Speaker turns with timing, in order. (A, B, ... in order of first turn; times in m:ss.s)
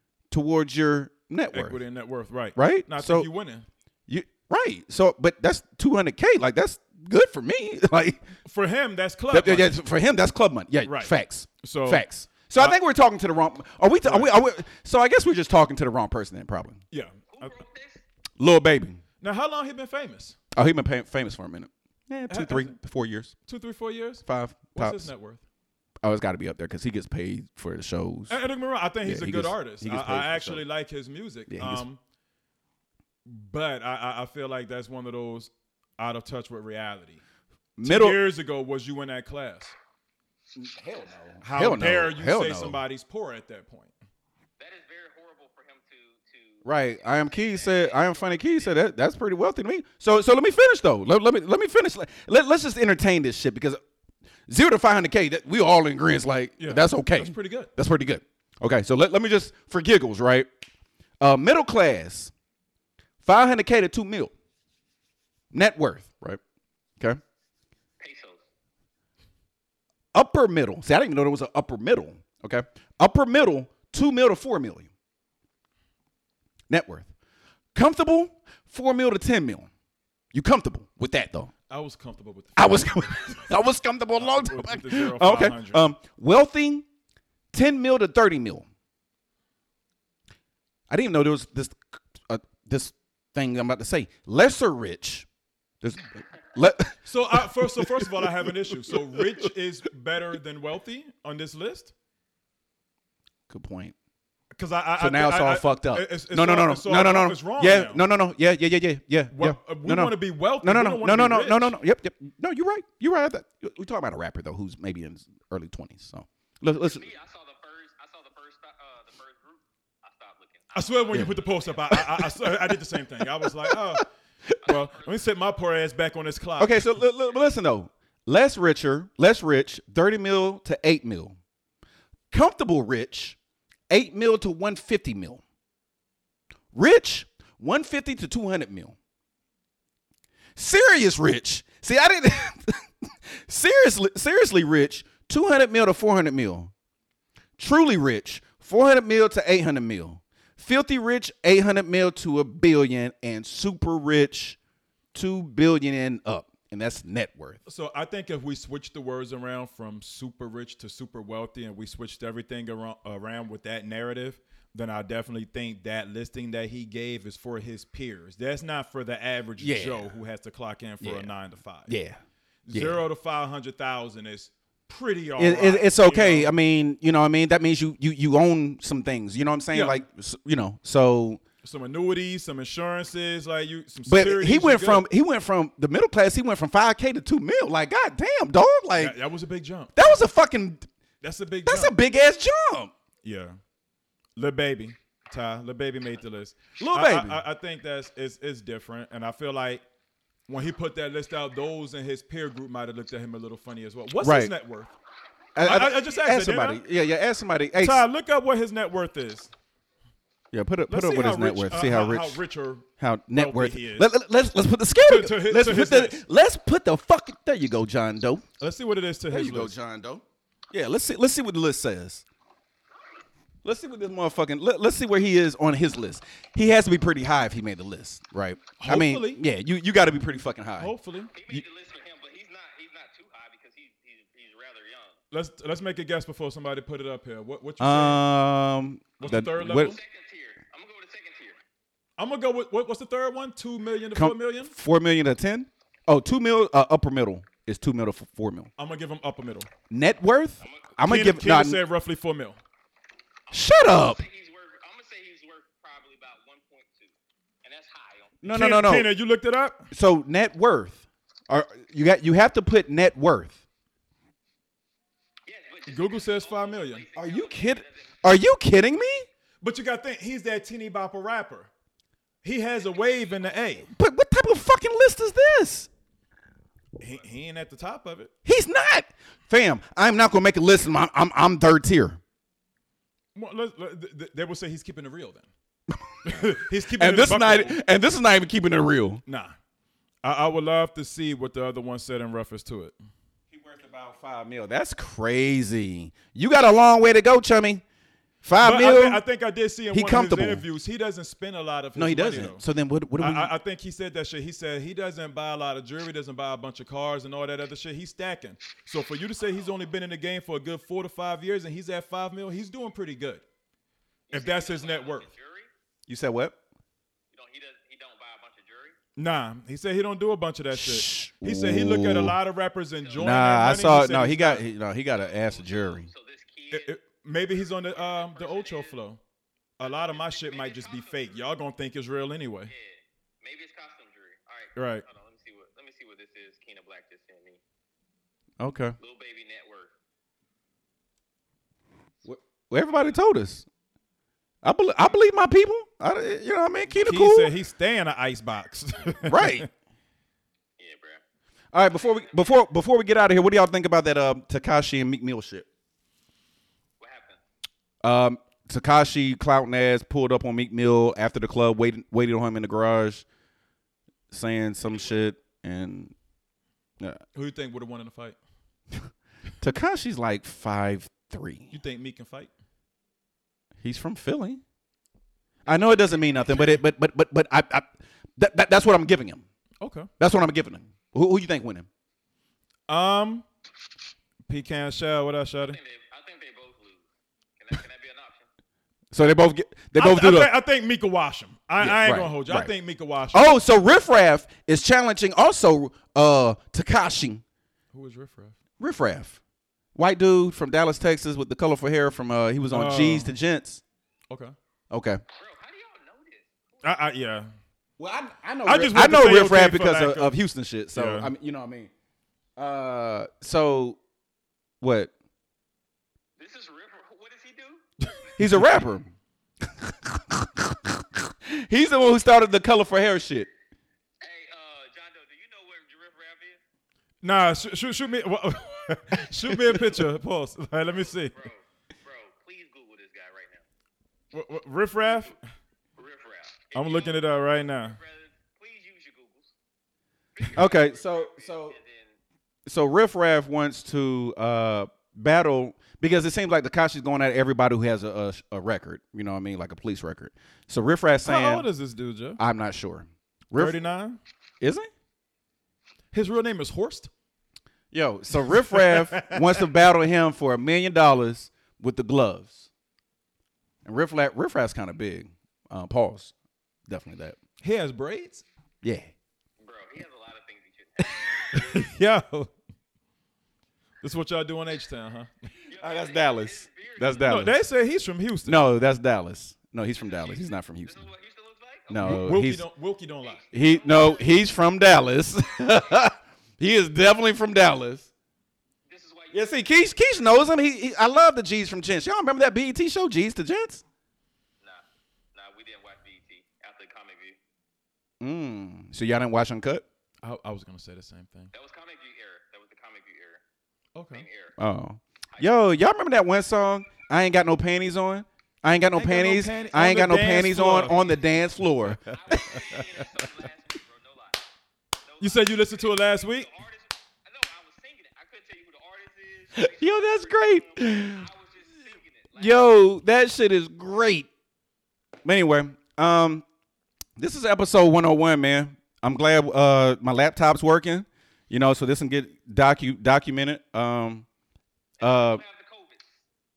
0:00.3-0:01.8 A
0:01.5-0:03.7 B
0:02.6-0:03.3 A
0:04.1-0:08.3 A
0:08.4-0:09.8 B
0:09.3-0:16.8 A
0:10.8-0:12.0 B
0:14.0-0:14.3 B
0:16.9-0:17.6 B
0:17.3-0:18.0 C
0:18.4-0:19.0 A
0:19.2-0:20.4 B
0:20.5-0:23.3 A
0:22.3-0:22.8 B
0:23.5-0:25.4 B
0:24.2-0:25.1 A
0:26.0-0:28.4 A
0:28.3-0:32.0 B
0:29.0-0:30.6 A
0:31.5-0:31.8 A
0:33.2-0:37.2 B
0:37.8-0:38.2 A
0:37.8-0:39.8 B
0:40.6-0:42.8 A
0:41.4-0:44.0 B
0:44.6-0:48.8 C
0:46.6-0:53.8 A
0:54.5-1:00.5 A
0:56.6-0:57.7 B
1:01.2-1:02.3 A
1:03.2-1:04.3 A
1:05.5-1:06.4 A
1:08.0-1:08.4 C
1:10.1-1:14.9 A
1:16.7-1:17.1 A
1:17.8-1:19.7 A
1:20.3-1:21.5 A
1:21.7-1:23.6 B
1:22.6-1:26.9 A
1:24.2-1:25.8 B
1:27.5-1:28.7 A
1:30.9-1:35.3 A
1:35.8-1:39.3 A
1:37.1-1:41.9 B
1:43.5-1:43.9 A
1:44.5-1:48.0 B
1:45.0-1:57.1 A
1:49.3-1:51.8 B
1:56.8-2:02.1 C
2:00.7-2:04.0 B
2:01.9-2:03.8 A
2:04.6-2:05.2 C
2:04.6-2:07.0 B
2:06.6-2:11.4 A
2:12.3-2:13.4 A
2:13.9-2:15.4 A
2:16.7-2:19.0 A
2:20.6-2:26.7 A
2:27.6-2:34.6 A
2:35.1-2:37.6 A
2:37.6-2:52.0 B
2:49.6-2:50.1 A
2:51.0-2:51.3 A
2:51.9-2:53.0 A
2:52.6-2:56.5 B
2:55.4-3:01.4 A
2:59.7-3:00.0 B
3:01.6-3:05.1 B
3:04.1-3:09.2 A
3:09.0-3:10.2 B
3:10.0-3:10.9 A
3:11.2-3:12.0 B
3:11.6-3:12.9 A
3:13.2-3:13.6 B
3:14.4-3:19.8 B
3:16.8-3:17.4 A
3:20.5-3:24.9 B
3:24.2-3:24.5 A
3:25.6-3:28.0 A
3:25.6-3:26.8 B
3:27.8-3:29.5 B
3:30.5-3:32.4 A
3:30.9-3:34.1 B
3:33.0-3:38.4 A
3:35.0-3:36.2 B
3:38.6-3:39.8 B
3:39.3-3:42.2 A
3:43.6-3:50.9 A
3:48.8-3:49.4 B
3:50.8-3:51.3 B
3:51.3-3:55.2 C
3:55.3-3:58.2 B
3:57.8-4:00.0 A
3:59.2-4:00.0 B
3:59.7-4:01.6 C
4:02.2-4:04.7 B
4:04.2-4:08.7 A
4:08.8-4:09.7 B
4:09.9-4:11.8 A
4:10.6-4:11.0 C
4:11.0-4:12.6 B
4:13.5-4:17.1 C
4:13.5-4:14.2 A
4:17.6-4:18.4 C
4:18.4-4:19.1 A
4:18.5-4:19.9 B
4:19.9-4:23.6 A
4:25.5-4:28.2 C
4:25.9-4:27.1 B
4:27.2-4:29.3 A
4:29.6-4:31.7 B
4:32.4-4:33.9 B
4:32.8-4:33.9 C
4:33.9-4:35.9 A
4:37.0-4:38.3 B
4:38.4-4:42.2 A
4:43.3-4:45.5 B
4:46.0-4:49.2 A
4:46.2-4:47.8 B
4:49.3-4:49.6 B
4:50.2-4:53.0 B
4:53.5-4:57.8 A
4:58.4-4:59.2 A
4:58.6-5:02.6 B
4:59.9-5:00.6 A
5:02.0-5:03.5 A
5:03.2-5:13.4 B
5:14.3-5:15.7 C
5:14.3-5:15.3 B
5:16.1-5:16.6 A
5:17.3-5:19.0 C
5:19.2-5:24.6 B
5:20.7-5:22.4 A
5:23.0-5:23.4 C
5:23.2-5:26.1 A
5:25.1-5:27.0 C
5:26.7-5:29.2 B
5:27.7-5:29.0 C
5:29.8-5:32.7 B
5:29.8-5:31.4 C
5:32.7-5:37.6 C
5:34.8-5:35.1 B
5:38.6-5:39.0 A
5:39.0-5:39.9 C
5:42.2-5:43.7 A
5:44.6-5:47.5 A
5:46.9-5:49.7 B
5:49.3-5:49.7 A
5:50.8-5:51.2 C
5:51.7-5:55.7 A
5:51.9-5:52.6 C
5:57.0-5:57.4 C
5:58.0-6:03.2 A
6:04.3-6:06.1 A
6:04.9-6:05.2 C
6:07.3-6:08.4 B
6:09.6-6:11.8 A
6:11.7-6:12.5 B
6:13.8-6:14.6 A
6:15.7-6:19.4 A
6:16.4-6:16.7 C
6:19.8-6:20.1 B
6:20.2-6:21.9 A
6:22.9-6:23.4 B
6:24.5-6:25.8 B
6:25.6-6:27.0 C
6:27.6-6:28.5 C
6:29.1-6:30.5 A
6:30.0-6:33.5 B
6:31.8-6:32.7 A
6:33.3-6:37.4 A
6:37.9-6:38.6 B
6:38.8-6:39.4 A
6:40.0-6:43.8 A
6:42.7-6:43.3 B
6:44.3-6:44.6 B
6:44.9-6:45.2 A
6:45.3-6:46.9 C
6:46.8-6:47.5 B
6:48.0-6:51.9 A
6:48.6-6:50.4 B
6:50.9-6:51.3 B
6:52.6-6:54.0 A
6:54.8-6:55.1 A
6:56.4-6:58.3 C
6:58.4-6:59.1 A
6:59.6-7:03.5 A
7:04.2-7:06.6 C
7:07.2-7:11.4 B
7:09.4-7:09.8 A
7:11.3-7:13.6 C
7:14.3-7:15.4 B
7:15.0-7:15.4 C
7:16.0-7:19.5 C
7:16.7-7:18.0 B
7:20.4-7:22.2 C
7:20.5-7:21.8 A
7:22.7-7:31.7 A
7:31.2-7:32.4 B
7:32.4-7:33.8 A
7:33.5-7:34.2 B
7:34.6-7:34.9 A
7:36.1-7:37.1 B
7:37.9-7:42.7 A
7:38.5-7:39.6 B
7:43.8-7:46.3 A
7:46.9-7:47.4 A
7:47.6-7:48.4 B
7:48.8-7:49.1 A
7:49.6-7:51.8 C
7:51.5-7:52.5 B
7:54.0-7:55.3 B
7:55.7-7:57.6 C
7:55.8-7:57.6 A
7:57.2-7:58.6 B
7:58.5-8:01.1 A
8:00.0-8:02.1 C
8:01.9-8:02.6 A
8:02.0-8:03.4 B
8:03.2-8:04.4 C
8:03.5-8:08.1 A
8:08.9-8:09.6 C
8:09.3-8:13.8 A
8:14.6-8:17.4 C
8:18.2-8:19.8 A
8:20.2-8:21.5 B
8:21.5-8:23.4 C
8:24.0-8:24.3 B
8:24.1-8:24.6 C
8:24.6-8:32.6 A
8:25.3-8:25.6 C
8:29.0-8:31.2 B
8:31.9-8:33.0 B
8:32.1-8:34.5 C
8:35.0-8:42.8 C
8:35.2-8:36.5 B
8:39.6-8:41.3 A
8:42.4-8:44.3 A
8:45.2-8:46.4 A
8:47.2-8:54.3 A
8:55.0-8:56.2 C
8:55.0-8:55.4 A